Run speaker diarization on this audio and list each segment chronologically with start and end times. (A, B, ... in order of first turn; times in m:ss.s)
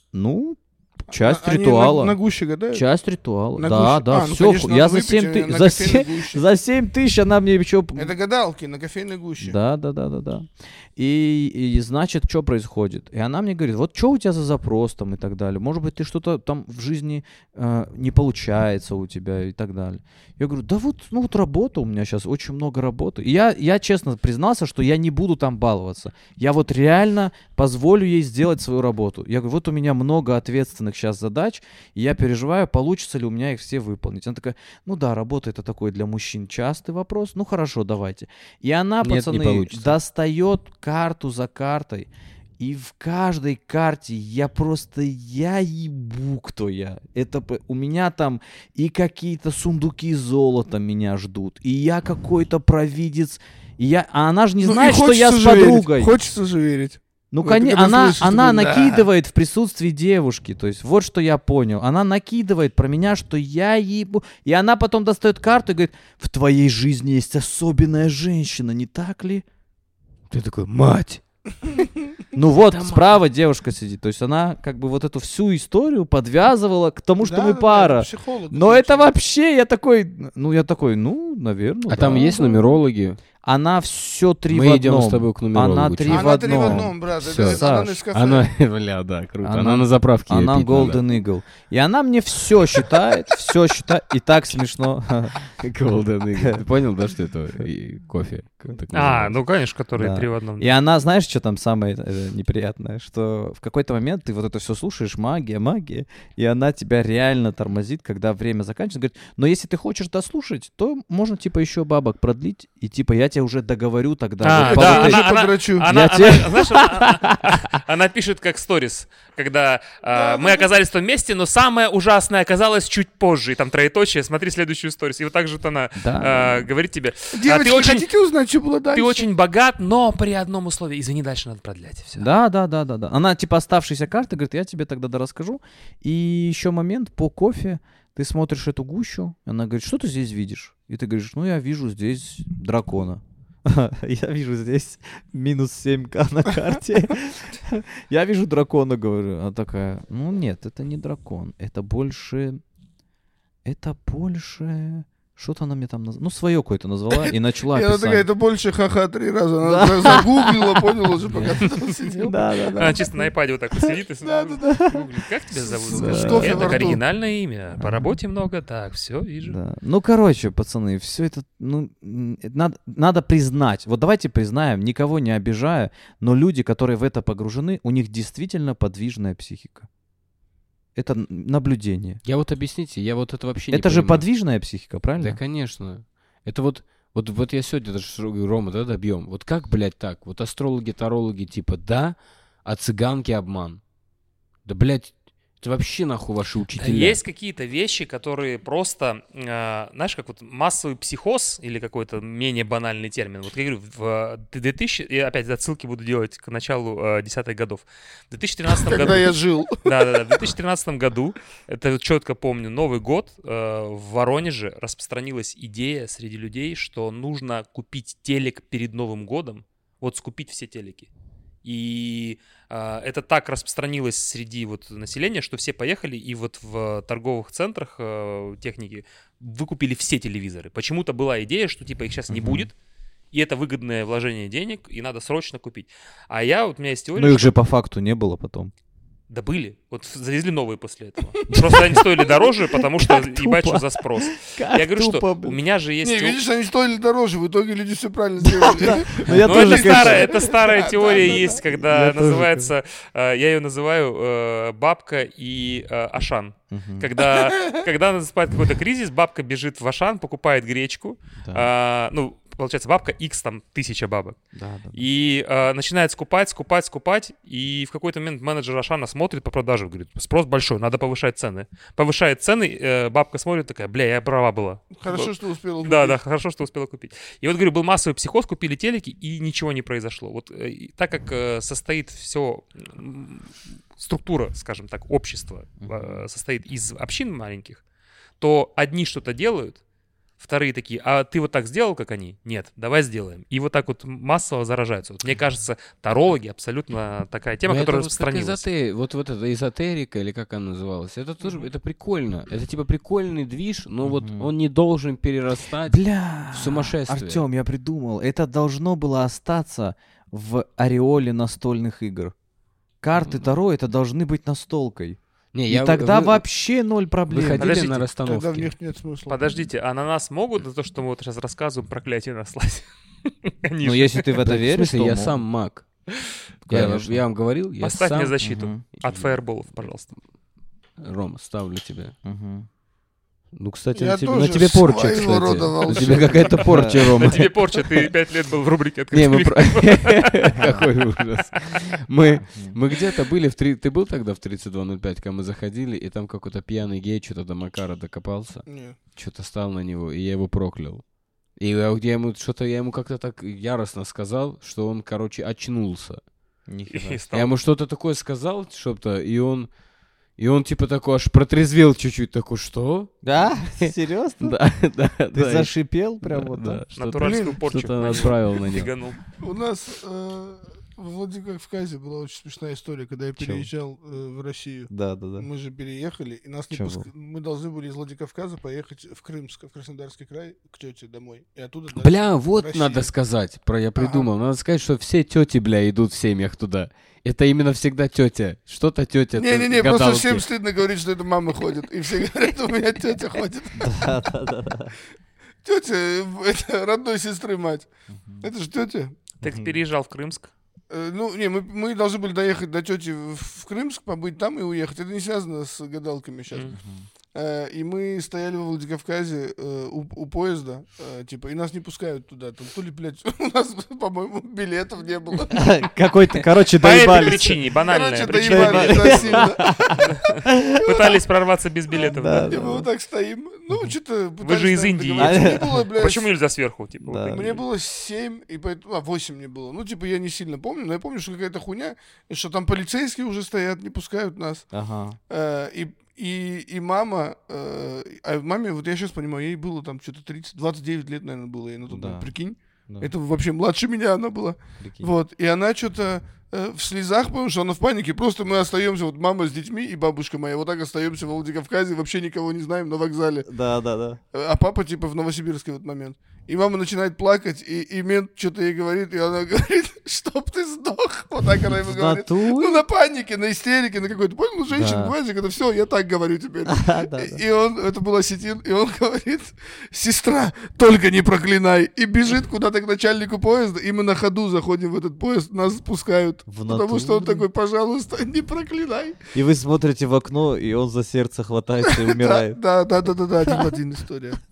0:00.1-0:02.2 A
0:01.2-0:02.8 B
0:02.7-0:08.2 A
0:03.6-0:06.4 B
0:08.0-0:09.6 B
0:09.4-0:56.2 A
0:39.0-0:40.0 C
0:54.6-0:59.1 B
0:57.3-1:09.4 A
1:10.3-1:11.9 C
1:12.3-1:22.4 A
1:12.5-1:13.2 C
1:17.2-1:19.1 B
1:21.9-1:23.2 C
1:22.1-1:22.8 B
1:23.4-1:28.0 A
1:24.5-1:31.0 C
1:26.1-1:28.5 B
1:29.4-1:35.4 A
1:32.7-1:33.0 C
1:35.6-1:39.4 C
1:38.9-1:40.7 D
1:40.0-1:57.4 A
1:54.4-2:08.1 D
1:54.6-1:55.9 B
2:00.1-2:00.7 B
2:06.0-2:06.7 A
2:07.3-2:09.2 B
2:08.9-2:12.3 D
2:12.2-2:32.6 A
2:33.6-2:38.2 A
2:37.3-2:43.0 B
2:39.6-2:40.6 A
2:41.3-2:41.6 A
2:42.2-2:43.9 A
2:42.8-2:49.6 D
2:44.5-2:45.1 A
2:45.7-2:47.0 B
2:45.9-2:47.0 A
2:47.8-2:48.2 A
2:49.4-2:59.9 A
3:01.0-3:02.2 A
3:02.2-3:04.3 C
3:03.7-3:05.4 A
3:05.2-3:13.8 C
3:14.6-3:17.2 C
3:16.8-3:41.1 D
3:28.7-3:30.0 B
3:41.6-3:52.7 D
3:52.3-3:52.7 A
3:53.3-3:57.6 D
3:57.2-3:58.7 A
3:59.3-4:06.4 D
4:01.5-4:05.6 A
4:06.0-4:11.5 B
4:08.4-4:10.5 A
4:09.3-4:24.4 D
4:11.1-4:12.7 A
4:16.7-4:17.2 A
4:17.2-4:17.9 B
4:21.4-4:21.7 A
4:24.5-4:25.0 A
4:24.9-4:47.8 D
4:34.9-4:36.2 B
4:45.8-4:46.2 A
4:48.4-4:49.8 D
4:50.4-4:58.6 D
4:57.7-5:07.4 C
5:04.0-5:04.5 A
5:05.9-5:12.3 A
5:13.0-5:17.7 A
5:13.2-5:13.5 C
5:15.5-5:16.4 C
5:17.3-5:18.7 C
5:17.6-5:18.1 D
5:18.2-5:19.4 B
5:19.3-5:24.3 D
5:23.8-5:25.4 A
5:24.4-5:25.9 C
5:26.7-5:27.2 A
5:26.7-5:28.4 C
5:27.8-5:30.1 D
5:28.4-5:28.8 A
5:29.0-5:29.9 C
5:31.0-5:32.1 C
5:32.2-5:32.7 A
5:33.6-5:38.1 C
5:33.9-5:36.6 B
5:36.6-5:37.4 A
5:37.0-5:40.9 D
5:39.1-5:51.0 C
5:40.6-5:40.9 A
5:42.3-5:42.8 A
5:48.7-5:49.0 B
5:51.6-5:56.2 C
5:56.7-5:57.2 A
5:56.9-5:57.6 D
5:57.3-5:59.7 C
6:00.4-6:08.9 C
6:03.2-6:04.6 A
6:05.3-6:06.8 A
6:07.0-6:09.2 D
6:07.2-6:07.6 B
6:09.4-6:23.1 B
6:13.4-6:13.7 A
6:14.9-6:15.5 A
6:16.7-6:17.1 A
6:21.9-6:30.4 C
6:24.0-6:24.3 B
6:29.4-6:34.1 B
6:33.8-6:34.9 A
6:35.6-6:37.9 B
6:38.1-6:38.5 A
6:38.4-6:39.2 B
6:39.4-6:40.5 D
6:39.4-6:39.8 A
6:40.9-6:46.7 B
6:46.7-6:47.1 A
6:47.3-6:55.8 B
6:55.5-6:57.6 A
6:56.6-7:02.5 D
6:57.1-7:00.2 B
6:58.4-7:01.1 A
7:00.9-7:01.1 B
7:01.9-7:06.3 B
7:02.0-7:02.9 A
7:04.4-7:07.6 D
7:05.2-7:05.8 A
7:07.0-7:07.5 A
7:07.3-7:14.7 B
7:14.7-7:15.2 A
7:15.3-7:33.5 B
7:21.9-7:22.3 A
7:24.8-7:25.1 A
7:33.5-7:34.2 A
7:34.3-7:59.2 B
7:41.7-7:42.8 A
7:44.7-7:45.2 A
7:46.7-7:47.4 A
7:56.5-7:57.5 A
7:59.3-8:02.6 A
8:01.9-8:04.4 B